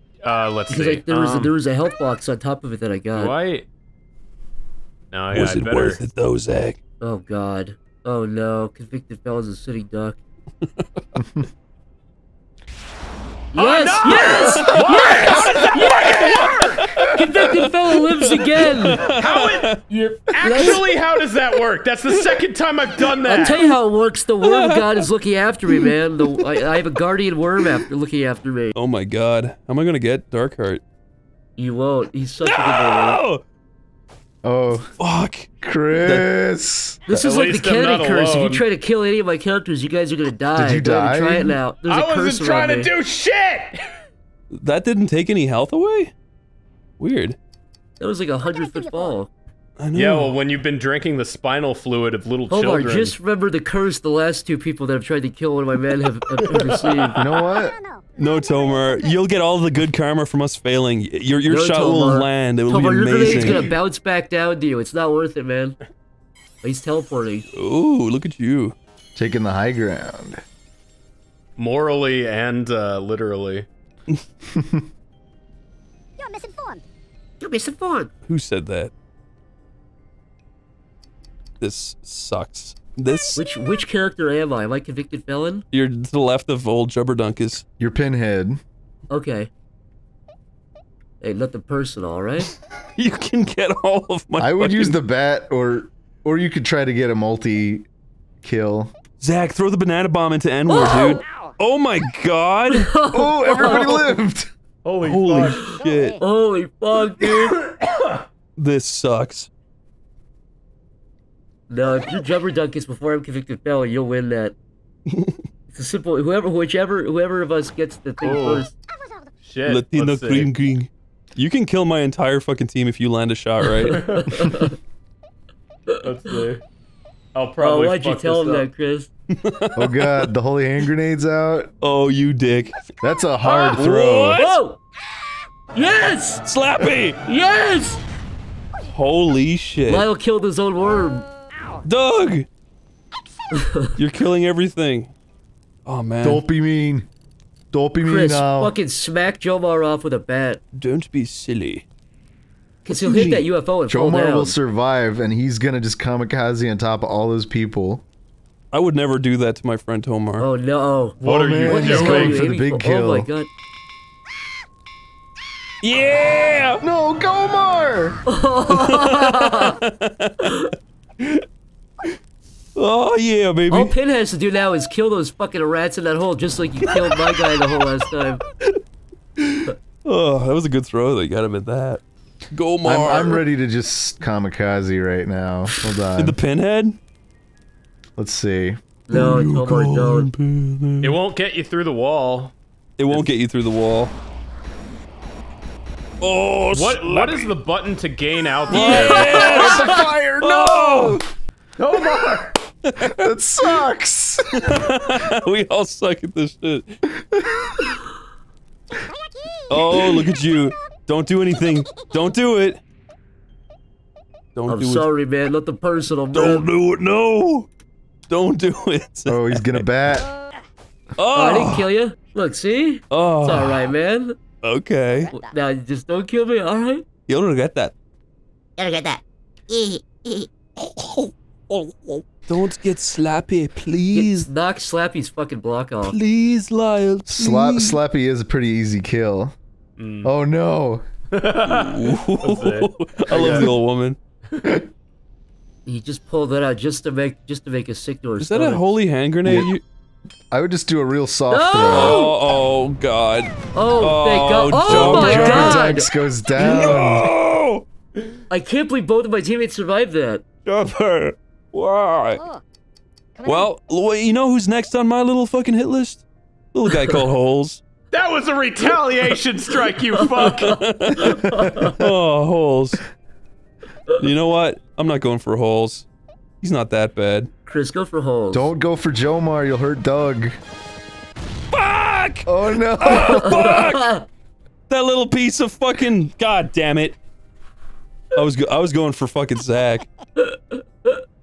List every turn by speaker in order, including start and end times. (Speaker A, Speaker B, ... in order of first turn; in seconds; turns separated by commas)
Speaker A: 0.2-1.5, Speaker B: 0.7-3.4, Speaker A: 3.1-3.7, Speaker A: 5.1-6.0, Speaker C: 5.3-6.8, Speaker B: 7.0-10.2, Speaker C: 10.6-10.9, Speaker A: 13.5-16.9, Speaker B: 13.5-19.0, Speaker C: 14.1-19.8, Speaker A: 19.0-19.8, Speaker B: 19.9-20.8, Speaker A: 20.4-23.6, Speaker B: 23.3-28.8, Speaker C: 24.4-25.1, Speaker C: 25.7-26.7, Speaker C: 28.8-30.8, Speaker B: 31.6-33.2, Speaker C: 32.4-33.4, Speaker D: 34.4-35.0, Speaker C: 35.0-36.3, Speaker D: 35.6-37.3, Speaker B: 37.1-42.9, Speaker A: 37.2-38.6, Speaker D: 40.5-41.6, Speaker A: 41.9-43.9, Speaker C: 44.5-46.1, Speaker C: 47.0-47.4, Speaker B: 48.0-49.3, Speaker E: 48.4-49.2, Speaker C: 49.8-50.3, Speaker A: 49.9-53.2, Speaker B: 52.5-57.2, Speaker A: 56.4-57.3, Speaker D: 57.2-57.8, Speaker E: 57.3-59.4, Speaker C: 58.2-63.8, Speaker B: 61.5-65.8, Speaker A: 63.2-63.6, Speaker B: 66.6-67.5, Speaker C: 67.5-68.8, Speaker D: 69.2-70.4, Speaker A: 71.6-73.7, Speaker D: 74.5-74.8, Speaker E: 76.2-76.8, Speaker B: 77.4-78.1, Speaker C: 78.3-78.9, Speaker C: 81.6-83.4, Speaker B: 83.4-85.7, Speaker C: 85.7-87.6, Speaker D: 87.8-88.6, Speaker B: 89.1-89.5, Speaker B: 91.2-92.5, Speaker C: 93.0-95.0, Speaker D: 94.4-97.9, Speaker D: 98.4-98.9, Speaker C: 99.2-103.0, Speaker E: 100.8-101.5, Speaker B: 102.7-103.8, Speaker D: 103.1-104.5, Speaker A: 103.6-104.1, Speaker A: 104.8-105.8, Speaker C: 105.0-106.2, Speaker E: 105.6-106.2, Speaker B: 106.2-107.6, Speaker A: 107.6-108.0, Speaker C: 108.6-109.5, Speaker B: 111.7-114.6, Speaker C: 115.1-115.4, Speaker B: 115.7-118.7, Speaker A: 118.2-118.7, Speaker E: 118.9-119.3, Speaker A: 119.4-120.5, Speaker C: 119.7-124.2, Speaker B: 123.8-124.8, Speaker A: 123.9-124.3, Speaker A: 126.0-126.6, Speaker A: 127.3-128.7, Speaker B: 127.6-129.1, Speaker C: 129.3-130.3, Speaker D: 129.8-131.7, Speaker C: 131.8-132.8, Speaker D: 133.0-134.4, Speaker C: 133.4-134.6, Speaker B: 134.4-134.8, Speaker B: 135.7-136.4, Speaker C: 136.4-137.2, Speaker B: 137.2-138.0, Speaker C: 138.8-140.1, Speaker B: 139.9-141.3, Speaker C: 141.9-142.5, Speaker B: 143.5-144.0, Speaker C: 144.0-145.1, Speaker C: 145.9-146.4, Speaker D: 146.2-147.1, Speaker D: 147.7-148.8, Speaker B: 148.0-150.6, Speaker C: 150.8-151.9, Speaker C: 152.9-153.5, Speaker B: 152.9-154.6, Speaker D: 153.9-158.0, Speaker C: 158.7-160.5, Speaker B: 160.4-163.5, Speaker A: 161.2-162.5, Speaker D: 161.2-163.3, Speaker C: 165.8-166.8, Speaker D: 166.8-168.2, Speaker B: 168.3-169.8, Speaker C: 168.7-171.4, Speaker B: 170.4-170.7, Speaker C: 172.8-173.9, Speaker B: 173.7-178.4, Speaker C: 176.9-177.2, Speaker C: 179.4-183.4, Speaker D: 182.8-186.4, Speaker C: 186.2-187.0, Speaker D: 188.2-188.8, Speaker B: 189.1-190.3, Speaker C: 189.1-191.2, Speaker A: 191.0-192.5, Speaker C: 193.0-194.1, Speaker C: 196.2-197.5, Speaker A: 196.7-199.8, Speaker C: 198.7-201.2, Speaker B: 198.7-200.0, Speaker D: 199.0-201.2, Speaker A: 201.8-202.6, Speaker C: 202.8-203.8, Speaker D: 203.0-205.0, Speaker C: 204.5-207.0, Speaker D: 207.3-208.0, Speaker E: 209.0-212.4, Speaker C: 209.7-212.8, Speaker C: 214.6-215.1, Speaker B: 214.7-216.7, Speaker C: 216.3-217.7, Speaker C: 218.3-219.8, Speaker D: 219.3-220.3, Speaker C: 221.2-221.9, Speaker B: 221.3-224.4, Speaker C: 223.1-223.8, Speaker C: 224.6-225.3, Speaker E: 225.2-225.5, Speaker B: 225.3-227.1, Speaker C: 227.3-227.9, Speaker E: 228.8-232.2, Speaker C: 232.5-234.5, Speaker B: 234.1-236.2, Speaker C: 236.0-238.0, Speaker D: 237.3-239.6, Speaker A: 240.0-240.3, Speaker D: 240.2-241.1, Speaker A: 241.3-243.8, Speaker C: 241.6-244.2, Speaker A: 244.5-244.8, Speaker B: 245.9-248.8, Speaker C: 248.4-249.8, Speaker D: 249.4-249.7, Speaker D: 250.5-252.3, Speaker B: 251.5-252.3, Speaker C: 251.9-255.9, Speaker B: 253.7-256.1, Speaker D: 254.8-257.4, Speaker C: 256.5-257.9, Speaker B: 258.5-260.4, Speaker C: 260.6-262.4, Speaker E: 262.4-262.6, Speaker E: 263.4-263.7, Speaker C: 263.4-267.8, Speaker A: 268.1-270.9, Speaker B: 270.1-272.0, Speaker C: 270.6-273.0, Speaker C: 274.2-276.1, Speaker C: 276.6-277.5, Speaker B: 277.7-278.7, Speaker D: 278.5-280.6, Speaker C: 281.7-282.5, Speaker D: 282.5-283.9, Speaker C: 283.0-284.1, Speaker B: 283.1-284.3, Speaker C: 284.9-287.2, Speaker C: 288.3-290.1, Speaker B: 290.4-291.2